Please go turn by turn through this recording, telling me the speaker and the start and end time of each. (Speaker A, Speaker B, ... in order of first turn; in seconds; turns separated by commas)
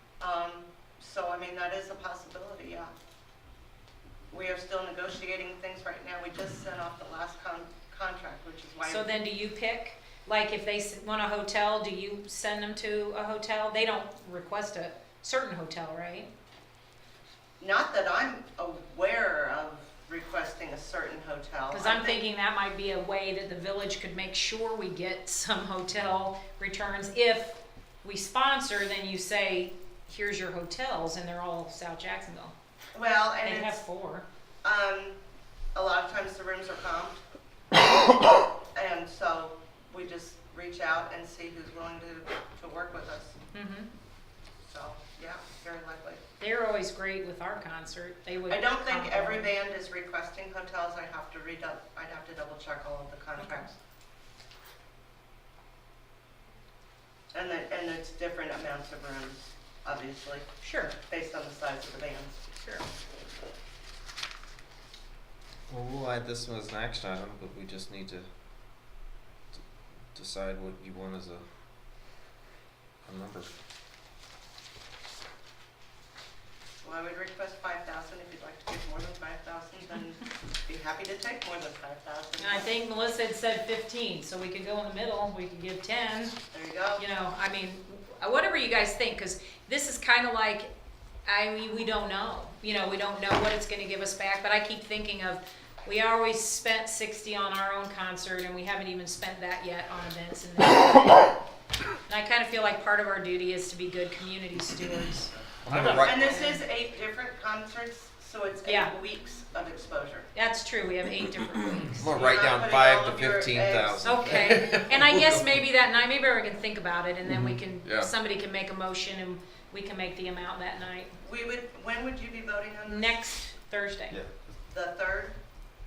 Speaker A: 0.2-2.9, Speaker A: 4.3-9.1, Speaker B: 8.8-16.3, Speaker A: 17.6-22.2, Speaker B: 21.7-32.5, Speaker A: 32.9-33.8, Speaker B: 33.4-34.2, Speaker A: 34.6-35.2, Speaker A: 35.7-37.2, Speaker A: 38.7-43.4, Speaker B: 43.5-43.9, Speaker A: 44.7-46.2, Speaker B: 46.4-49.5, Speaker A: 48.5-53.7, Speaker B: 53.4-53.7, Speaker A: 57.3-60.5, Speaker B: 60.6-60.9, Speaker A: 61.0-62.4, Speaker C: 65.7-68.3, Speaker C: 70.1-71.4, Speaker C: 73.0-73.5, Speaker A: 76.8-82.7, Speaker B: 82.4-86.3, Speaker A: 86.5-87.0, Speaker B: 87.0-90.7, Speaker B: 91.2-101.4, Speaker B: 102.1-106.6, Speaker C: 105.6-106.4, Speaker A: 106.0-110.3, Speaker B: 108.6-108.9, Speaker B: 110.3-112.4, Speaker C: 112.0-115.4, Speaker A: 112.2-114.5, Speaker B: 114.0-121.1, Speaker C: 117.4-118.1, Speaker A: 121.2-123.2, Speaker B: 122.8-124.2, Speaker A: 124.7-125.3